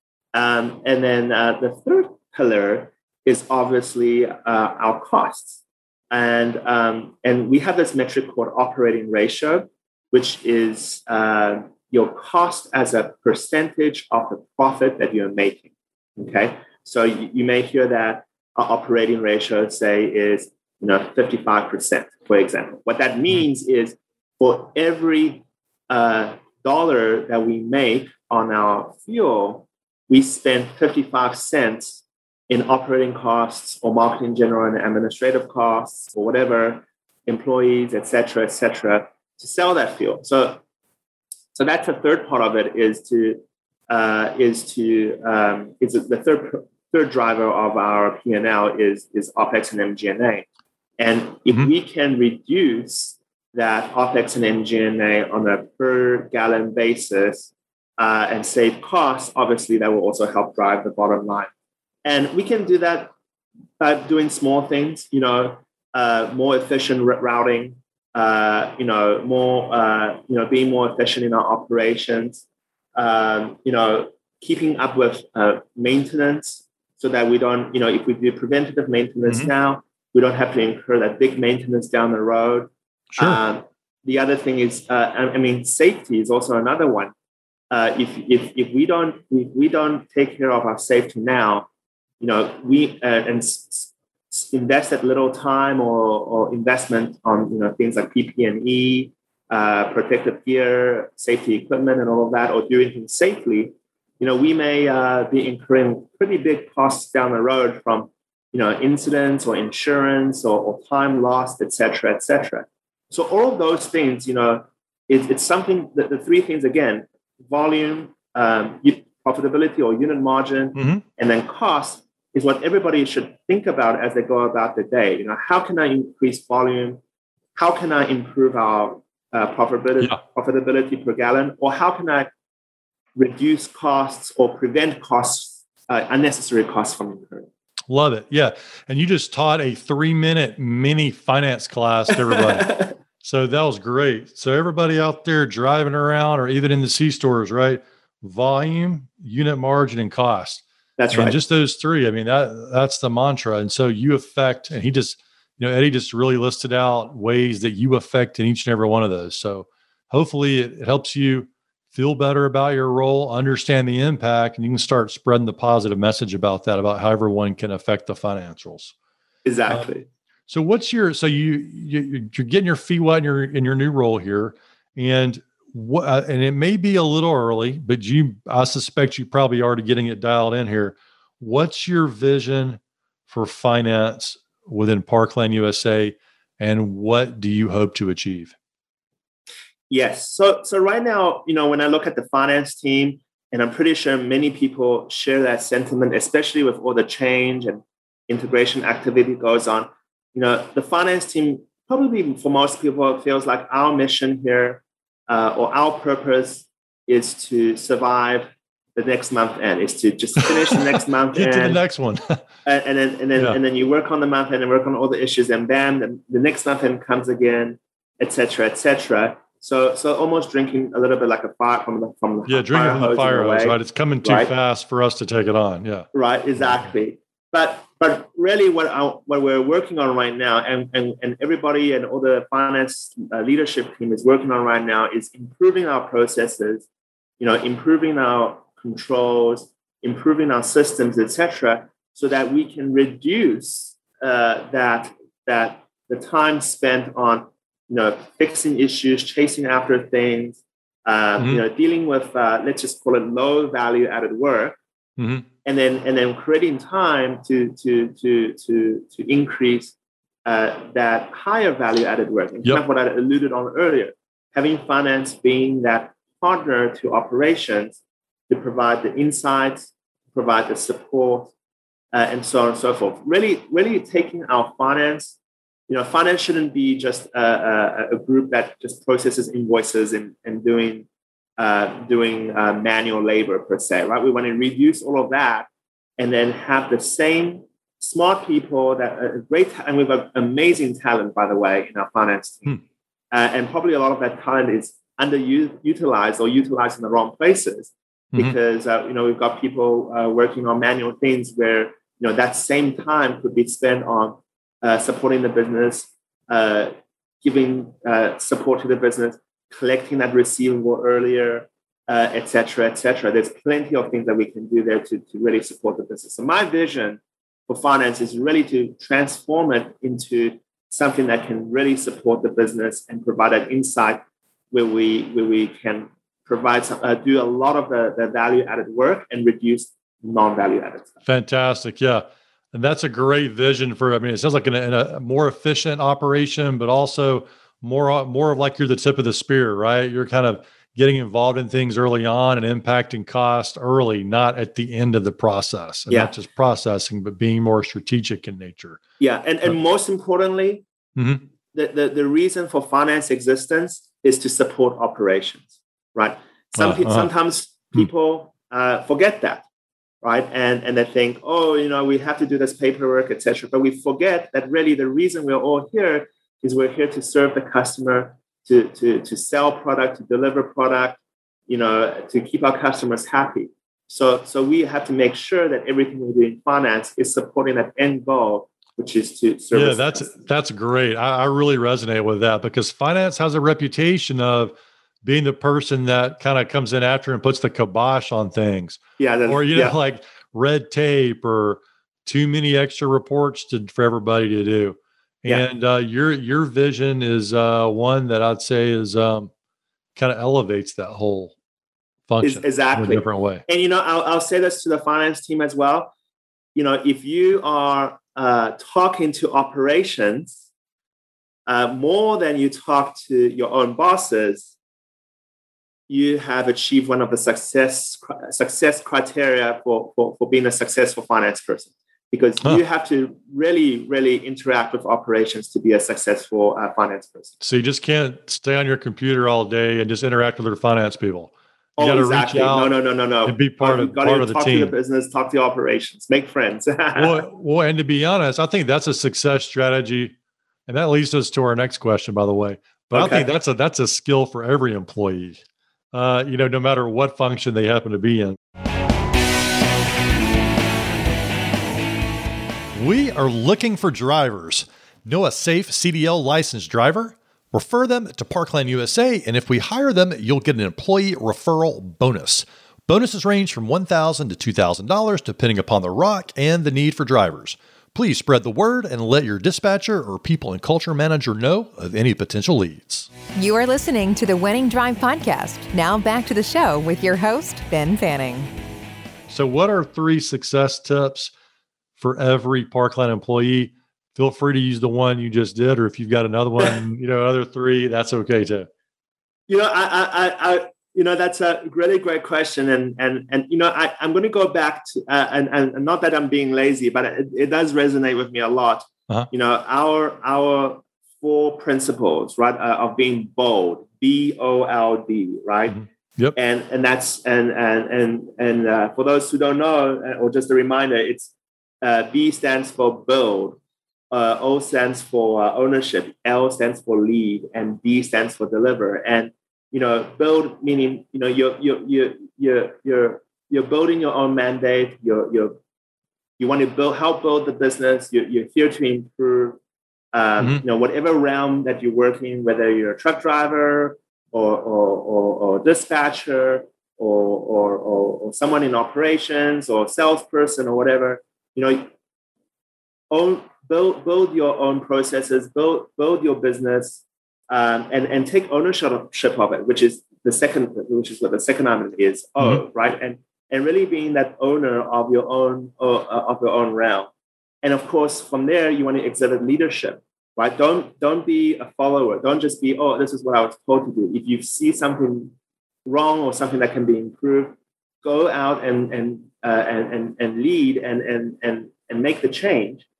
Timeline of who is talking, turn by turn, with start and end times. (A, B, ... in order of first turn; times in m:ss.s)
0:00.3-0:40.6 A
0:41.5-0:50.5 A
0:51.0-1:01.5 A
1:02.0-1:03.1 A
1:03.8-1:12.4 A
1:13.0-1:27.1 A
1:23.1-1:23.4 B
1:27.7-1:31.7 A
1:32.2-2:07.0 A
2:00.8-2:01.0 B
2:07.5-2:12.3 A
2:13.2-2:17.5 A
2:17.9-2:48.9 B
2:22.3-2:22.9 A
2:31.0-2:31.4 A
2:49.4-2:50.0 A
2:50.5-3:08.5 B
3:09.9-3:31.8 A
3:31.3-3:32.4 B
3:32.6-3:44.5 A
3:42.5-3:46.1 B
3:46.1-3:56.9 A
3:57.4-4:14.8 A
4:15.2-4:15.4 B
4:15.6-4:31.5 A
4:32.1-4:35.4 A
4:35.9-4:41.1 A
4:41.6-4:45.7 A
4:46.2-5:31.1 A
5:31.2-5:49.0 B
5:49.2-5:50.8 A
5:51.2-5:51.4 B
5:51.7-5:59.6 A
5:56.7-5:57.3 B
6:00.2-6:20.4 A
6:19.7-6:39.5 B
6:29.2-6:30.0 A
6:40.2-6:41.5 B
6:42.3-6:43.6 B
6:42.4-6:46.1 A
6:46.7-6:50.6 A
6:51.7-6:54.7 A
6:56.1-7:07.5 A
7:07.6-7:12.9 B
7:12.0-7:17.4 A
7:13.4-7:14.9 B
7:17.1-7:20.3 B
7:20.9-7:28.6 B
7:23.1-7:23.5 A
7:32.9-7:53.3 B
7:53.6-7:58.7 C
7:59.5-8:01.5 B
8:02.2-8:08.9 B
8:09.7-8:26.0 A
8:26.0-8:26.5 B
8:26.5-8:33.8 A
8:34.3-8:45.8 A
8:46.6-8:49.8 A
8:50.3-9:02.1 A
9:03.3-9:17.3 A
9:17.8-9:25.5 A
9:26.0-9:33.1 A